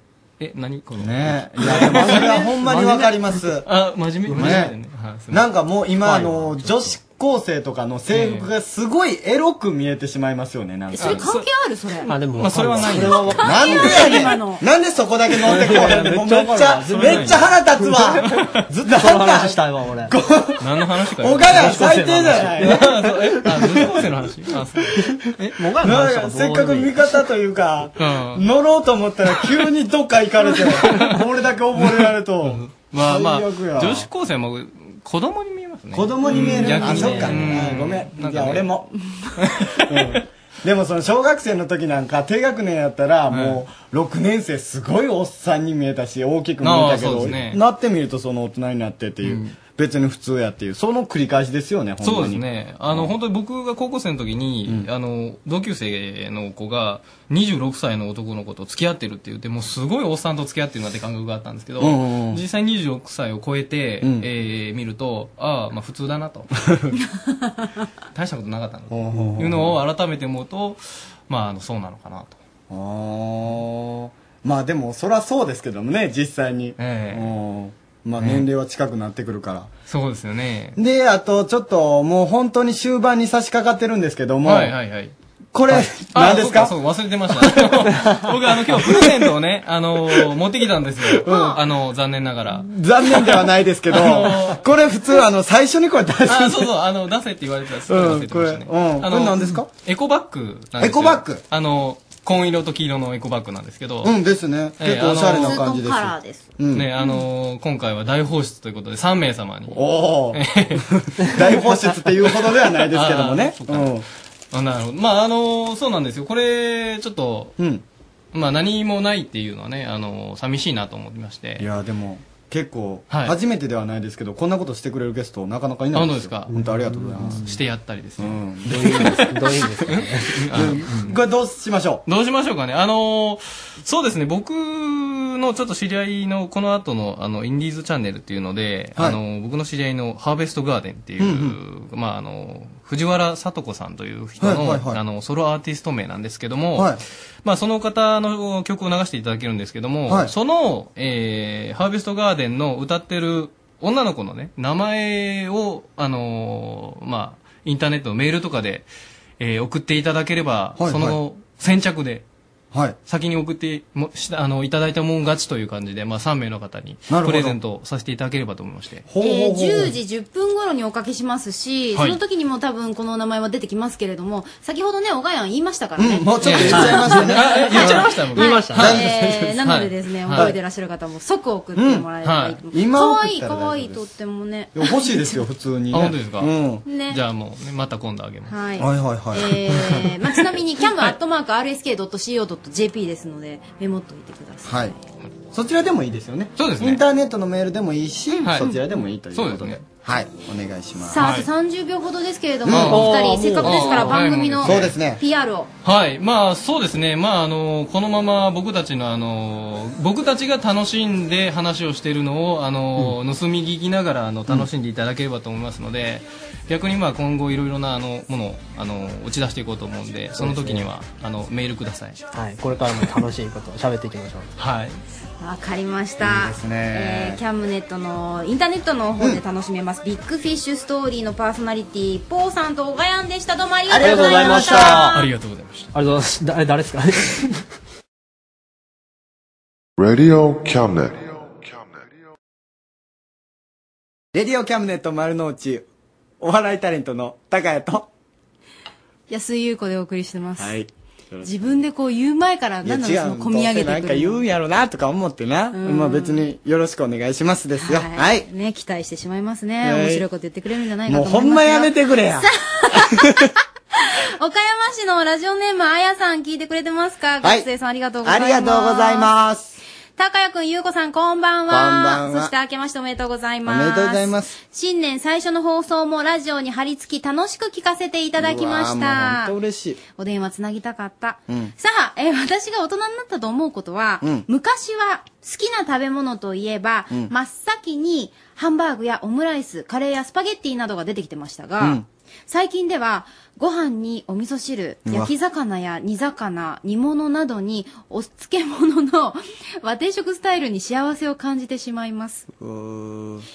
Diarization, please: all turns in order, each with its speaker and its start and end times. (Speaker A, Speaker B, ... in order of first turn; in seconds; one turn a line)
Speaker A: 0.4-2.3
Speaker B: 1.0-3.6
Speaker C: 1.6-3.6
Speaker A: 3.6-5.5
Speaker C: 4.3-4.6
Speaker B: 4.3-4.7
Speaker B: 5.3-11.2
Speaker C: 6.0-7.0
Speaker A: 8.1-8.5
Speaker A: 10.9-11.3
Speaker D: 10.9-12.1
Speaker C: 12.0-14.3
Speaker A: 12.3-13.4
Speaker D: 12.8-14.6
Speaker B: 13.4-20.6
Speaker C: 15.3-18.3
Speaker A: 16.9-17.4
Speaker A: 18.2-18.6
Speaker C: 18.8-20.1
Speaker A: 20.6-21.8
Speaker B: 21.2-22.9
Speaker C: 21.5-24.0
Speaker A: 22.6-25.6
Speaker B: 23.5-24.0
Speaker C: 25.6-27.2
Speaker B: 25.8-34.1
Speaker A: 28.0-28.4
Speaker A: 31.8-38.7
Speaker B: 35.9-38.9
Speaker D: 36.3-36.8
Speaker C: 36.3-37.8
Speaker A: 39.4-40.2
Speaker B: 39.9-53.1
Speaker A: 43.3-43.6
Speaker A: 46.6-47.6
Speaker A: 49.2-49.6
Speaker A: 52.0-66.5
Speaker B: 61.8-62.4
Speaker B: 64.0-64.3
Speaker A: 68.1-72.4
Speaker B: 68.9-69.8
Speaker B: 72.7-79.7
Speaker A: 76.8-77.3
Speaker A: 78.2-78.5
Speaker A: 79.9-80.8
Speaker B: 80.8-84.7
Speaker A: 84.5-85.1
Speaker B: 85.5-86.7
Speaker A: 85.7-94.6
Speaker B: 87.4-87.9
Speaker B: 91.0-91.6
Speaker D: 91.2-91.6
Speaker B: 92.5-96.7
Speaker A: 96.2-104.2
Speaker B: 97.9-99.7
Speaker B: 100.8-101.4
Speaker B: 104.0-106.9
Speaker A: 104.8-105.6
Speaker D: 105.4-106.5
Speaker A: 106.7-110.8
Speaker B: 109.7-114.0
Speaker C: 111.4-111.7
Speaker A: 112.7-117.6
Speaker A: 118.3-121.7
Speaker B: 121.6-127.4
Speaker A: 123.1-123.4
Speaker A: 125.9-126.5
Speaker C: 126.5-127.6
Speaker A: 127.3-131.2
Speaker B: 128.2-129.2
Speaker C: 128.6-130.9
Speaker B: 130.5-132.0
Speaker A: 132.1-158.9
Speaker B: 141.2-141.6
Speaker B: 144.4-145.0
Speaker A: 159.4-162.2
Speaker B: 160.8-161.2
Speaker A: 163.1-169.0
Speaker B: 167.1-167.6
Speaker B: 169.1-169.9
Speaker D: 169.2-185.4
Speaker B: 176.0-178.1
Speaker A: 176.4-180.6
Speaker C: 176.7-178.9
Speaker B: 178.8-179.6
Speaker B: 181.8-182.1
Speaker A: 182.2-182.6
Speaker B: 182.7-184.1
Speaker B: 184.7-186.8
Speaker A: 185.9-188.6
Speaker D: 186.8-187.2
Speaker D: 188.5-194.9
Speaker B: 188.8-190.1
Speaker A: 190.8-191.1
Speaker B: 194.7-194.9
Speaker B: 195.5-201.3
Speaker A: 196.6-197.0
Speaker D: 198.3-198.8
Speaker A: 198.5-198.7
Speaker A: 199.3-199.8
Speaker D: 201.0-205.7
Speaker A: 201.1-201.5
Speaker B: 202.7-203.0
Speaker A: 202.7-205.0
Speaker C: 202.9-204.2
Speaker B: 204.6-205.2
Speaker A: 205.8-222.2
Speaker C: 220.3-220.9
Speaker C: 222.3-224.5
Speaker A: 224.6-225.0
Speaker D: 225.4-235.2
Speaker B: 226.2-227.4
Speaker B: 233.9-235.1
Speaker C: 233.9-235.2
Speaker A: 235.1-235.9
Speaker C: 235.9-237.6
Speaker E: 240.0-242.1
Speaker B: 244.3-245.8
Speaker B: 246.4-248.1
Speaker D: 249.3-250.8
Speaker B: 250.6-251.5
Speaker D: 251.4-254.4
Speaker B: 252.8-258.5
Speaker D: 255.7-256.4
Speaker D: 257.8-269.3
Speaker B: 259.8-260.2
Speaker B: 261.1-263.5
Speaker B: 267.4-267.6
Speaker B: 268.2-269.8
Speaker D: 270.1-279.5
Speaker B: 271.7-272.5
Speaker B: 273.6-274.6
Speaker B: 278.4-280.0
Speaker D: 280.1-302.5
Speaker B: 291.8-292.1
Speaker B: 295.1-295.3
Speaker B: 302.5-303.4